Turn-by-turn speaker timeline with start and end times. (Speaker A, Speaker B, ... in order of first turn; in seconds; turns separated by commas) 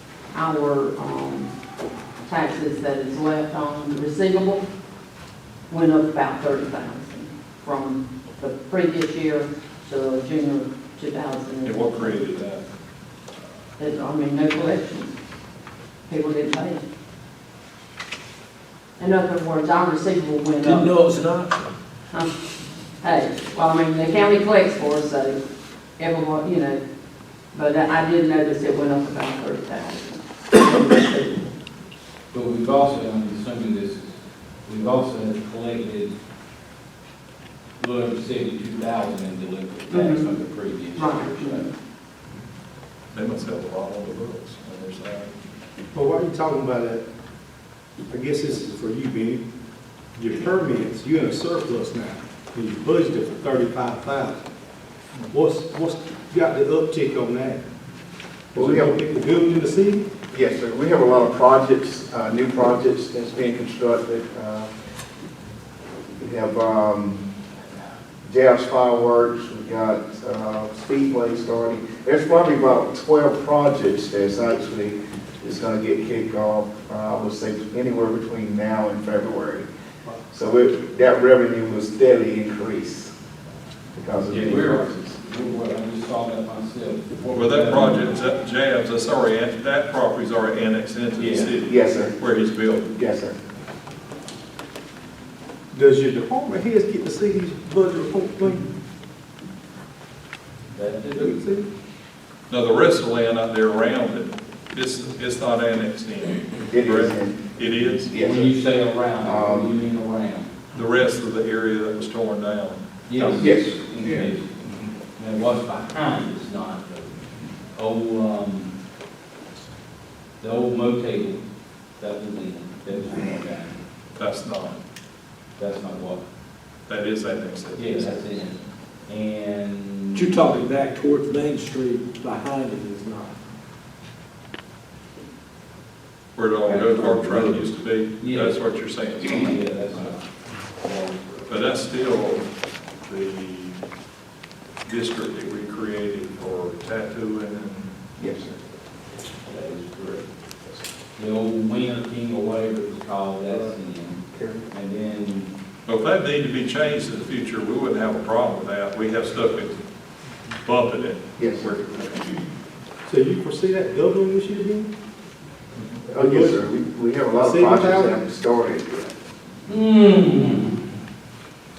Speaker A: 0.3-1.5, Speaker A: 2.2-4.6, Speaker A: 5.7-12.2, Speaker B: 11.6-12.6, Speaker A: 13.8-15.1, Speaker A: 16.1-16.8, Speaker A: 19.0-21.0, Speaker C: 20.6-21.6, Speaker A: 23.0-25.4, Speaker A: 26.0-26.8, Speaker A: 27.5-31.1, Speaker D: 32.3-34.1, Speaker D: 34.7-36.1, Speaker D: 37.8-41.7, Speaker A: 39.9-40.3, Speaker A: 41.0-41.7, Speaker B: 43.1-45.3, Speaker E: 45.9-47.0, Speaker E: 48.1-49.4, Speaker E: 50.1-54.4, Speaker E: 55.3-57.6, Speaker F: 58.5-59.0, Speaker E: 58.5-60.0, Speaker F: 60.3-64.7, Speaker F: 66.2-67.2, Speaker F: 68.2-79.7, Speaker F: 80.3-83.1, Speaker F: 84.0-85.2, Speaker D: 84.3-88.2, Speaker B: 87.3-92.9, Speaker D: 91.2-91.5, Speaker F: 91.7-92.1, Speaker F: 92.9-93.3, Speaker E: 95.7-98.7, Speaker D: 100.7-101.3, Speaker E: 101.1-101.7, Speaker B: 102.5-108.1, Speaker F: 106.7-107.4, Speaker F: 108.1-108.5, Speaker D: 108.1-110.5, Speaker F: 109.2-109.7, Speaker B: 110.7-113.4, Speaker D: 113.1-114.5, Speaker F: 113.2-114.3, Speaker D: 115.2-117.1, Speaker D: 117.7-118.7, Speaker D: 120.4-121.4, Speaker D: 122.0-123.8, Speaker B: 124.2-124.8, Speaker D: 125.6-126.2, Speaker B: 126.9-128.4, Speaker D: 127.8-130.4, Speaker C: 130.1-133.3, Speaker B: 136.3-140.1, Speaker D: 138.2-138.6, Speaker D: 139.2-141.5, Speaker B: 141.5-142.5, Speaker B: 143.0-143.8, Speaker B: 144.8-147.9, Speaker F: 148.2-148.6, Speaker D: 149.4-150.2, Speaker D: 151.2-155.5, Speaker F: 154.3-154.6, Speaker B: 155.9-159.8, Speaker B: 160.6-162.4, Speaker F: 161.4-161.7, Speaker E: 163.1-164.9, Speaker F: 166.1-169.1, Speaker E: 166.2-166.7, Speaker E: 167.4-168.2, Speaker D: 169.7-170.8